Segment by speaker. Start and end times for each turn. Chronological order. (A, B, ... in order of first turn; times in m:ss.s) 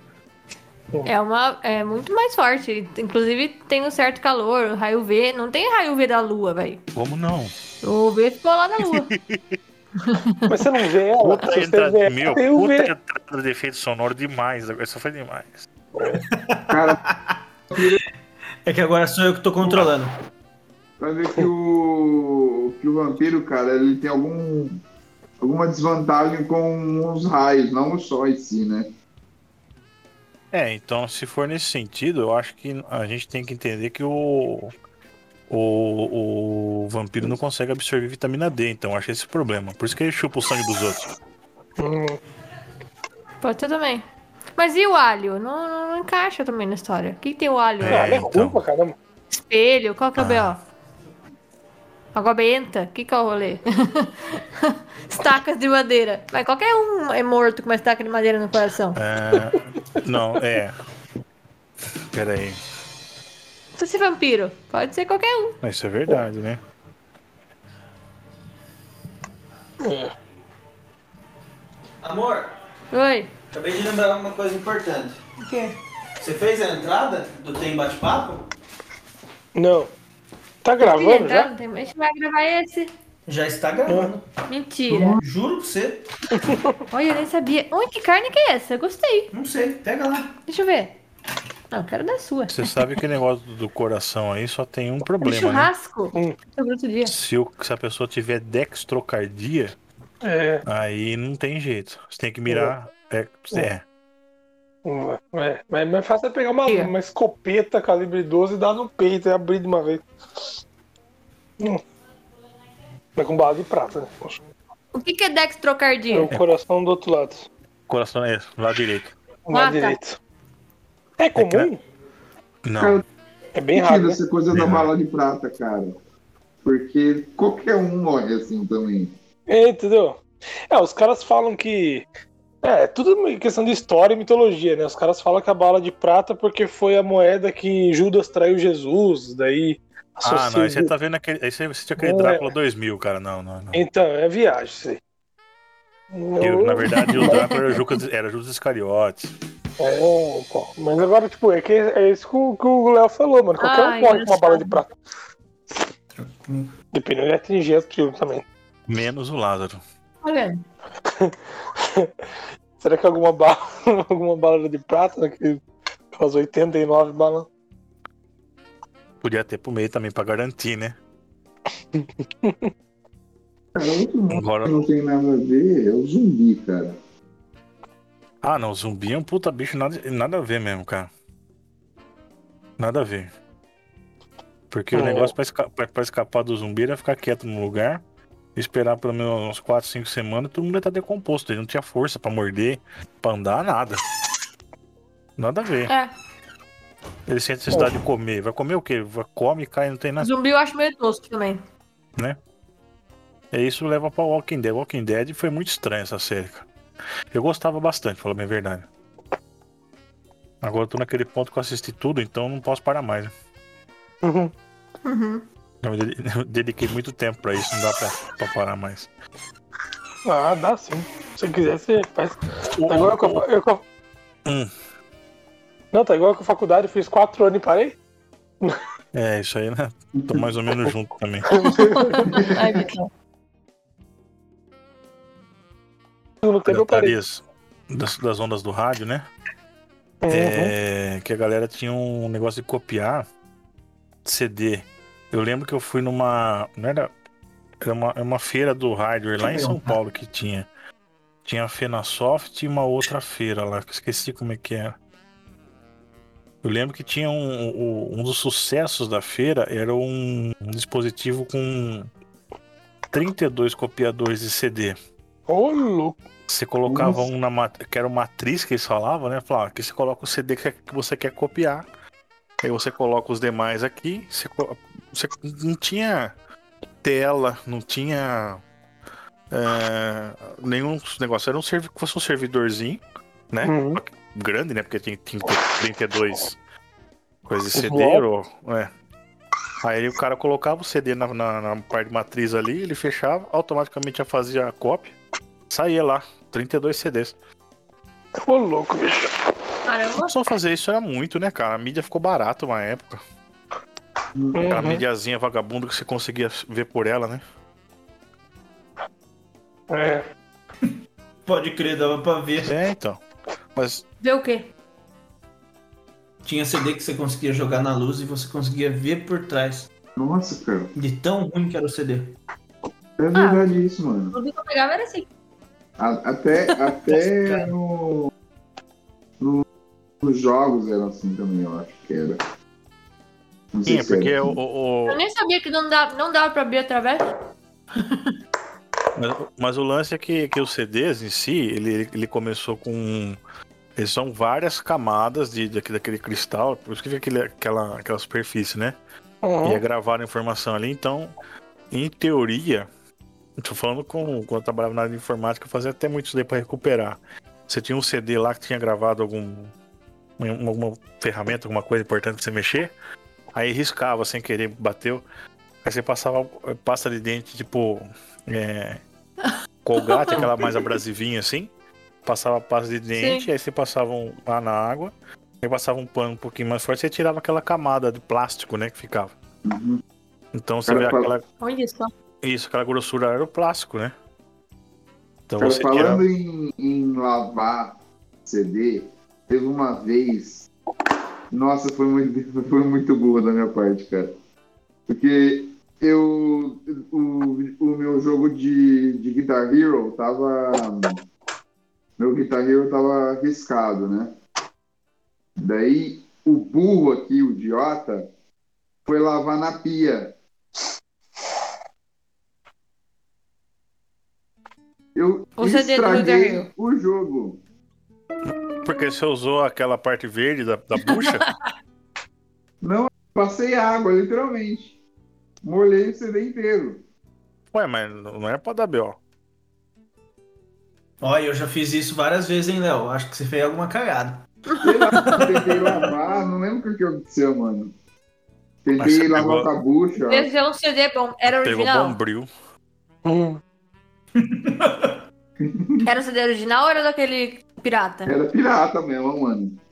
0:01.0-0:06.8 A
0:06.9-0:07.5 B
0:07.8-0:09.1 A
0:08.8-0:09.6 B
0:10.0-0:10.5 A
0:10.5-0:12.9 C
0:11.2-0:15.7 B
0:16.0-0:17.9 D
0:16.7-0:17.0 E
0:17.7-0:18.0 E
0:18.6-0:20.1 D
0:21.0-0:24.8 E
0:25.4-0:28.9 E
0:30.5-0:34.7 B
0:35.5-0:41.1 B
0:41.8-0:42.2 C
0:43.4-0:44.0 A
0:44.6-0:48.1 A
0:47.8-0:48.6 B
0:47.8-0:48.9 C
0:49.3-0:50.6 A
0:50.2-0:50.6 B
0:52.1-0:59.0 A
0:59.0-1:00.7 B
1:02.1-1:02.6 B
1:03.8-1:05.6 A
1:05.6-1:06.6 B
1:09.8-1:10.1 C
1:12.0-1:12.5 D
1:12.9-1:13.3 A
1:13.5-1:15.2 D
1:15.4-1:15.8 A
1:16.2-1:18.4 D
1:19.5-1:19.9 C
1:20.6-1:21.5 C
1:20.8-1:22.9 A
1:23.3-1:24.3 D
1:23.9-1:24.1 C
1:24.5-1:25.2 A
1:24.9-1:26.1 D
1:26.3-1:26.7 C
1:26.9-1:29.3 A
1:29.3-1:30.3 D
1:30.5-1:31.0 A
1:31.7-1:32.7 A
1:32.5-1:35.7 B
1:35.2-1:37.1 A
1:37.0-1:39.8 B
1:40.2-1:40.6 C
1:40.6-1:43.8 B
1:42.5-1:42.7 C
1:44.8-1:50.0 C
1:46.7-1:46.9 A
1:53.2-1:54.4 C
1:54.9-1:56.3 A
1:56.1-1:57.5 C
1:57.9-1:59.1 B
1:59.5-2:00.2 C
1:59.5-2:00.0 A
2:01.2-2:01.8 C
2:01.3-2:01.7 B
2:02.6-2:03.0 B
2:02.8-2:03.0 E
2:03.5-2:04.2 C
2:03.7-2:06.0 E
2:04.5-2:04.9 B
2:06.6-2:09.1 E
2:09.5-2:12.1 C
2:12.6-2:20.9 C
2:20.2-2:23.8 B
2:22.0-2:22.5 C
2:23.7-2:25.0 C
2:26.1-2:27.5 C
2:26.4-2:29.3 B
2:27.2-2:27.5 A
2:29.8-2:34.9 C
2:33.6-2:34.8 A
2:36.1-2:36.7 D
2:36.9-2:38.4 C
2:38.9-2:39.8 B
2:40.2-2:40.6 A
2:41.1-2:42.1 C
2:42.8-2:47.5 C
2:49.2-2:51.0 B
2:51.9-2:52.7 C
2:53.7-2:57.0 E
2:54.3-2:54.8 B
2:58.4-3:01.1 B
3:02.8-3:03.3 B
3:04.7-3:08.0 B
3:04.9-3:05.3 C
3:08.5-3:14.0 B
3:15.4-3:15.9 B
3:17.3-3:20.3 B
3:20.2-3:21.6 A
3:23.5-3:26.7 B
3:27.3-3:28.9 B
3:30.6-3:33.3 B
3:34.2-3:34.5 C
3:35.0-3:35.4 A
3:35.8-3:39.1 B
3:40.2-3:43.8 C
3:42.8-3:43.4 B
3:44.4-3:44.7 B
3:45.9-3:48.0 C
3:49.1-3:51.5 B
3:50.2-3:50.4 E
3:51.5-3:52.3 C
3:51.9-3:53.1 A
3:52.3-3:52.7 E
3:56.4-3:57.1 C
3:56.7-3:59.3 B
4:00.2-4:00.7 C
4:00.3-4:03.2 B
4:04.2-4:07.1 B
4:07.8-4:10.7 B
4:09.4-4:10.0 D
4:11.4-4:14.9 B
4:16.6-4:22.1 B
4:23.1-4:25.0 B
4:25.5-4:26.2 C
4:26.5-4:31.8 B
4:26.8-4:27.2 E
4:32.6-4:36.3 B
4:37.0-4:38.6 B
4:39.5-4:46.6 B
4:43.6-4:44.0 C
4:47.4-4:48.9 B
4:47.7-4:48.2 C
4:49.8-4:55.2 B
4:55.7-4:57.3 B
4:58.4-4:59.3 C
4:59.8-5:00.3 A
5:00.2-5:03.2 B
5:04.4-5:04.7 E
5:04.5-5:05.0 C
5:04.7-5:07.4 B
5:09.9-5:10.3 C
5:11.4-5:12.7 D
5:12.6-5:13.2 B
5:13.8-5:14.0 B
5:14.2-5:14.7 A
5:16.4-5:19.9 D
5:20.2-5:20.9 E
5:21.0-5:22.3 D
5:23.2-5:24.3 E
5:23.3-5:23.6 A
5:24.3-5:25.3 A
5:26.0-5:28.3 E
5:29.4-5:29.6 E
5:30.2-5:32.4 E
5:33.7-5:34.6 E
5:33.8-5:35.2 B
5:35.1-5:37.3 A
5:38.0-5:38.3 A
5:39.2-5:43.4 B
5:44.0-5:49.0 B
5:49.4-5:49.8 C
5:49.6-5:51.3 B
5:51.9-5:52.9 B
5:53.6-5:59.7 B
6:00.4-6:02.9 B
6:03.5-6:05.2 B
6:05.8-6:09.0 B
6:09.5-6:10.5 A
6:09.8-6:11.7 B
6:12.2-6:19.3 B
6:13.2-6:13.5 A
6:19.6-6:20.0 E
6:20.5-6:21.4 B
6:20.9-6:21.3 E
6:21.6-6:22.1 A
6:22.4-6:24.1 B
6:25.5-6:26.2 B
6:25.6-6:30.7 E
6:31.5-6:34.3 E
6:35.1-6:41.2 E
6:42.2-6:44.3 E
6:45.6-6:48.3 E
6:49.0-6:50.3 E
6:55.1-6:57.6 E
6:55.6-6:56.7 A
6:58.8-7:01.4 B
7:02.8-7:04.9 E
7:05.6-7:07.0 E
7:07.7-7:09.2 B
7:11.2-7:14.4 D
7:14.7-7:15.4 A
7:14.8-7:17.9 E
7:18.8-7:20.5 E
7:19.0-7:19.7 B
7:20.2-7:22.2 A
7:21.4-7:22.5 B
7:23.2-7:23.6 C
7:24.3-7:25.2 D
7:25.6-7:26.0 E
7:26.0-7:28.3 A
7:28.3-7:29.8 E